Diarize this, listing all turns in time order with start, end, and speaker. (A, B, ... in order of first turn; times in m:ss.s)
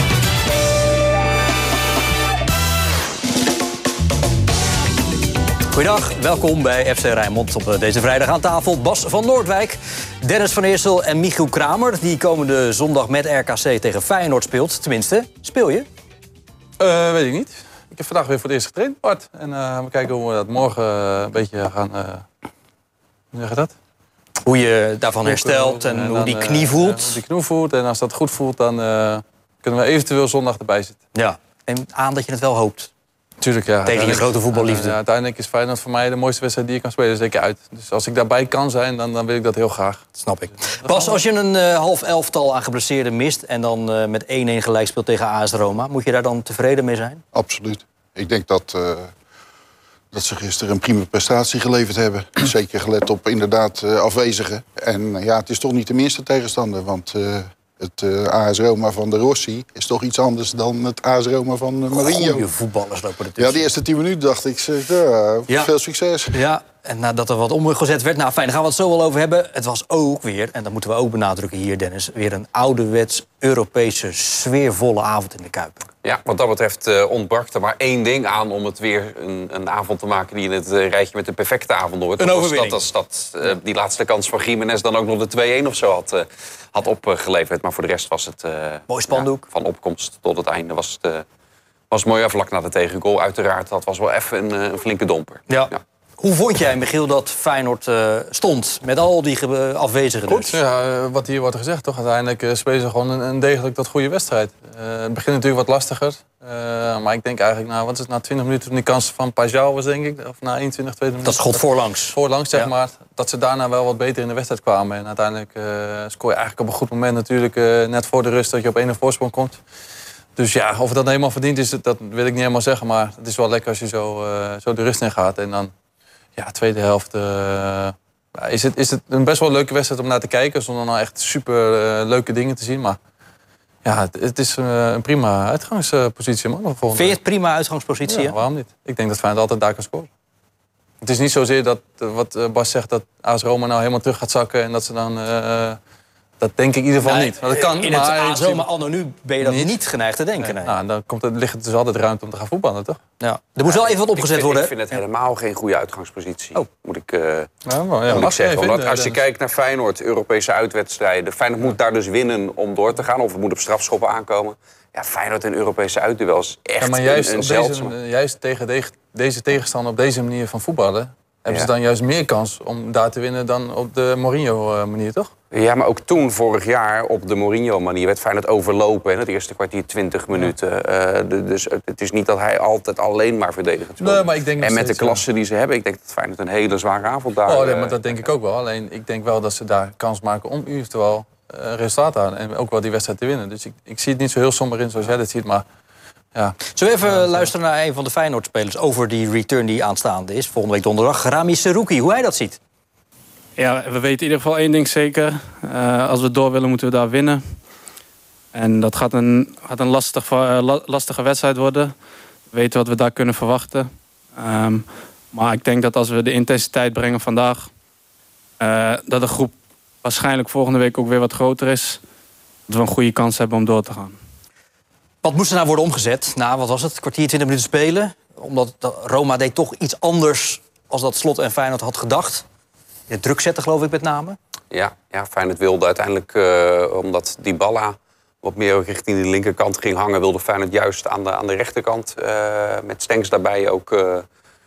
0:05.7-0:15.9 A
0:16.8-0:22.3 B
0:23.3-0:23.7 B
0:24.4-0:27.2 A
0:25.2-0:31.0 B
0:31.2-0:32.9 A
0:33.4-0:40.1 B
0:33.9-0:35.0 A
0:40.2-0:47.2 A
0:40.8-0:41.2 B
0:47.3-0:49.1 C
0:50.1-1:02.5 C
1:01.9-1:03.7 A
1:03.4-1:06.4 C
1:06.3-1:15.8 A
1:16.0-1:31.2 D
1:22.2-1:22.8 A
1:28.9-1:29.4 A
1:31.9-1:35.8 D
1:35.5-1:40.6 A
1:40.3-1:59.6 B
1:51.2-1:52.7 A
2:00.4-2:05.7 B
2:06.4-2:13.0 B
2:13.8-2:17.2 B
2:16.9-2:18.3 A
2:18.1-2:20.1 B
2:21.0-2:25.8 B
2:26.4-2:28.6 B
2:27.0-2:30.7 A
2:29.4-2:29.8 B
2:30.4-2:33.0 B
2:33.2-2:34.8 A
2:33.6-2:37.5 D
2:37.7-2:39.2 B
2:38.1-2:47.9 D
2:46.8-2:55.3 B
2:55.5-3:08.3 D
3:04.0-3:05.2 B
3:07.4-3:15.6 B
3:16.3-3:17.5 B
3:16.7-3:22.6 A
3:23.6-3:27.6 E
3:28.5-3:32.0 E
3:32.5-3:37.7 E
3:38.6-3:42.0 E
3:42.7-3:44.2 E
3:45.2-3:52.4 A
3:53.1-3:54.4 A
3:54.7-4:04.2 D